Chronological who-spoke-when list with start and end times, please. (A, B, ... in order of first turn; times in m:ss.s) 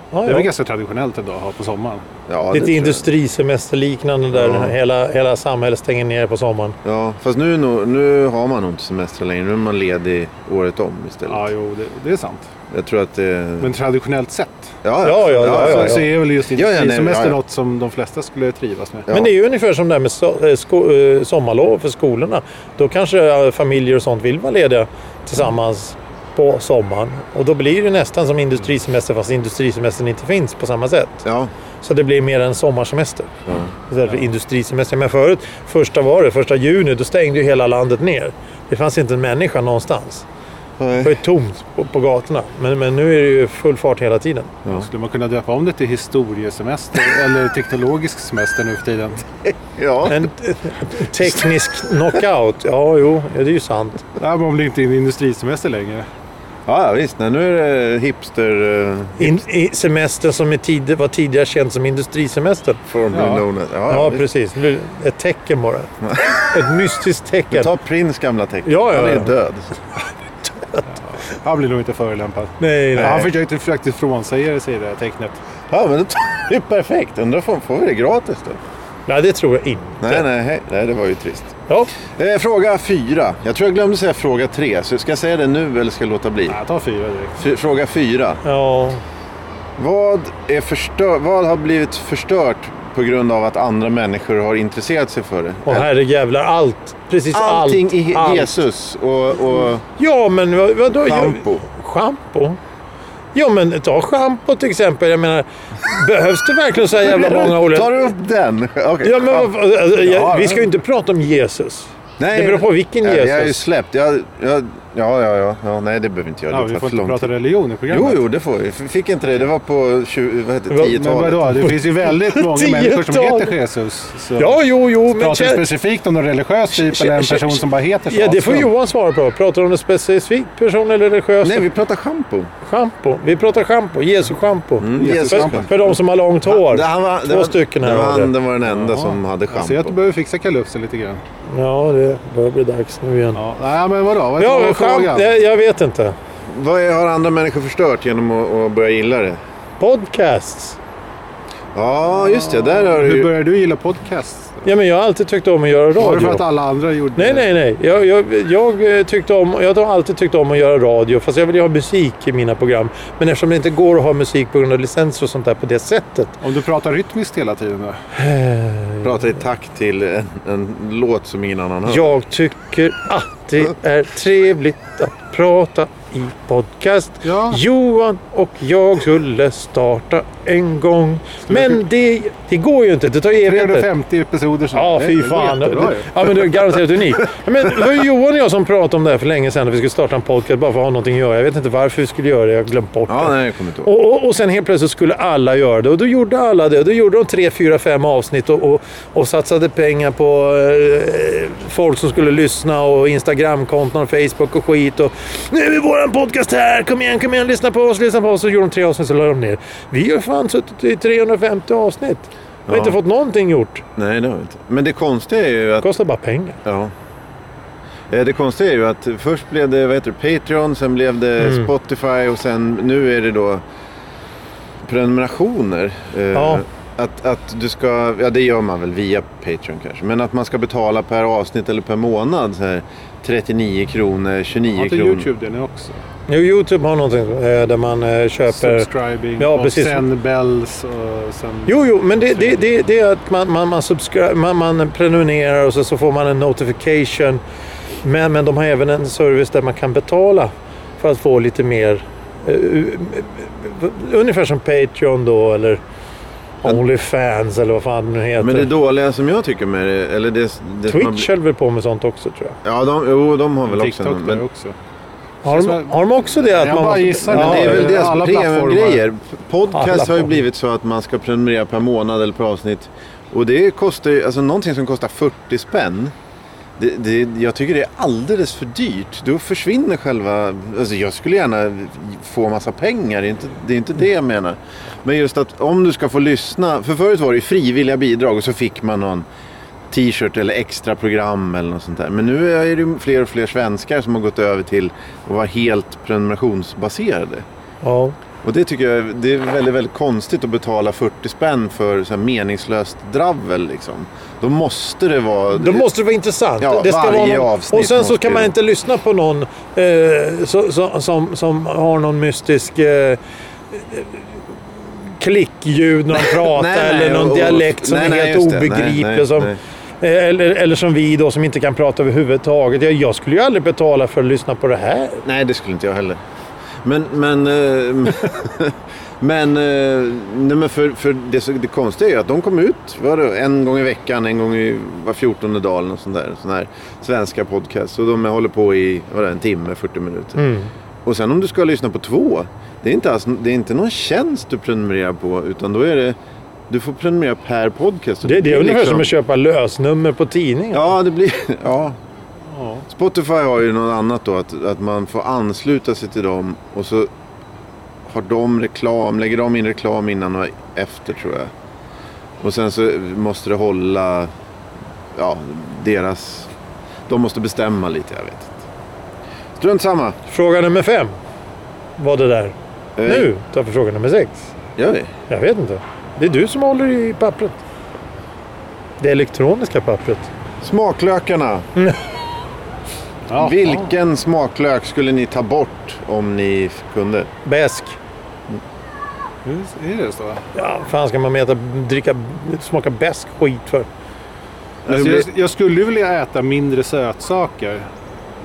0:00.1-0:00.5 A
0:00.3-0:02.0 B
0:02.3-0:03.1 C
0:02.5-0:06.8 A
0:04.3-0:04.8 C
0:06.8-0:11.5 C
0:11.2-0:12.5 B
0:12.7-0:13.8 C
0:13.6-0:14.8 B
0:14.8-0:17.4 C
0:15.0-0:16.1 A
0:15.4-0:19.1 B
0:19.1-0:19.3 C
0:19.1-0:31.2 A
0:31.2-0:31.5 C
0:31.8-0:33.3 A
0:33.5-0:33.7 C
0:33.9-0:40.2 A
0:40.8-0:41.2 C
0:41.0-0:44.6 A
0:44.7-0:49.3 B
0:49.7-0:50.3 C
0:50.1-0:54.1 A
0:54.2-0:56.1 B
0:56.7-0:59.4 C
0:59.2-1:02.8 A
1:02.9-1:04.2 C
1:03.1-1:03.5 B
1:03.9-1:07.7 A
1:06.0-1:06.4 C
1:07.5-1:09.8 C
1:08.6-1:09.3 A
1:11.0-1:15.4 B
1:12.6-1:13.3 A
1:13.0-1:13.3 C
1:15.7-1:18.6 C
1:19.1-1:20.2 A
1:20.0-1:21.6 C
1:22.2-1:26.6 C
1:26.5-1:27.4 B
1:27.4-1:28.4 C
1:28.4-1:29.0 A
1:29.8-1:35.9 C
1:35.7-1:38.6 A
1:37.3-1:39.8 C
1:40.0-1:42.6 A
1:41.0-1:41.6 C
1:43.3-1:48.1 A
1:47.0-1:49.5 C
1:49.0-1:53.6 A
1:50.0-1:50.7 B
1:52.2-1:57.3 C
1:56.5-1:58.2 B
1:57.9-2:01.7 C
2:00.7-2:03.5 A
2:00.9-2:08.7 B
2:04.4-2:05.7 A
2:06.7-2:11.7 A
2:11.4-2:12.5 C
2:12.7-2:18.3 A
2:14.8-2:20.0 C
2:15.0-2:15.8 B
2:18.6-2:21.2 B
2:21.5-2:23.4 A
2:23.3-2:25.3 B
2:24.4-2:26.2 A
2:26.4-2:29.4 C
2:29.8-2:30.8 A
2:31.7-2:33.3 C
2:32.1-2:34.7 B
2:34.6-2:36.4 A
2:36.0-2:37.5 B
2:37.2-2:46.4 A
2:46.4-2:48.0 B
2:48.2-2:49.2 A
2:49.0-2:52.1 C
2:51.9-3:03.9 A
2:57.2-2:57.6 B
3:03.4-3:06.1 B
3:04.7-3:33.8 A
3:13.1-3:13.9 C
3:32.7-3:33.0 C
3:34.0-3:35.9 C
3:35.8-3:36.6 A
3:36.6-3:36.9 C
3:38.1-3:43.6 C
3:41.4-3:41.7 A
3:44.8-3:55.3 C
3:46.3-3:46.6 A
3:54.7-3:56.0 B
3:56.3-4:00.0 A
3:58.5-4:02.6 B
4:01.7-4:07.4 A
4:08.0-4:15.8 A
4:16.6-4:18.7 A
4:18.4-4:21.3 C
4:20.9-4:22.6 A
4:22.6-4:24.4 C
4:23.7-4:24.8 B
4:25.4-4:28.0 A
4:25.5-4:29.0 B
4:27.3-4:36.1 C
4:29.7-4:30.3 A
4:36.8-4:49.3 C
4:49.9-4:57.4 C
4:57.8-4:58.2 A
4:58.4-5:05.9 C
5:05.5-5:13.2 A
5:06.6-5:08.5 C
5:13.7-5:14.4 A
5:15.0-5:25.2 A
5:16.1-5:19.6 C
5:25.2-5:26.2 C
5:26.8-5:40.4 C
5:40.4-5:40.7 A
5:41.0-5:46.2 C
5:46.7-5:49.1 C
5:48.2-5:50.9 A
5:50.7-5:52.0 C
5:52.5-5:52.9 B
5:52.9-5:57.1 C
5:58.1-6:01.5 C
6:02.4-6:04.3 C
6:05.2-6:06.5 C
6:07.1-6:08.6 C
6:09.6-6:10.2 C
6:10.3-6:11.2 A
6:12.0-6:14.4 A
6:13.0-6:13.3 C
6:14.8-6:15.2 C
6:15.3-6:17.6 A
6:19.0-6:20.3 A
6:20.6-6:21.7 C
6:23.3-6:23.9 B
6:23.4-6:27.3 C
6:27.4-6:28.0 A
6:29.4-6:30.4 B
6:30.6-6:33.9 A
6:34.8-6:35.3 C
6:34.9-6:37.9 B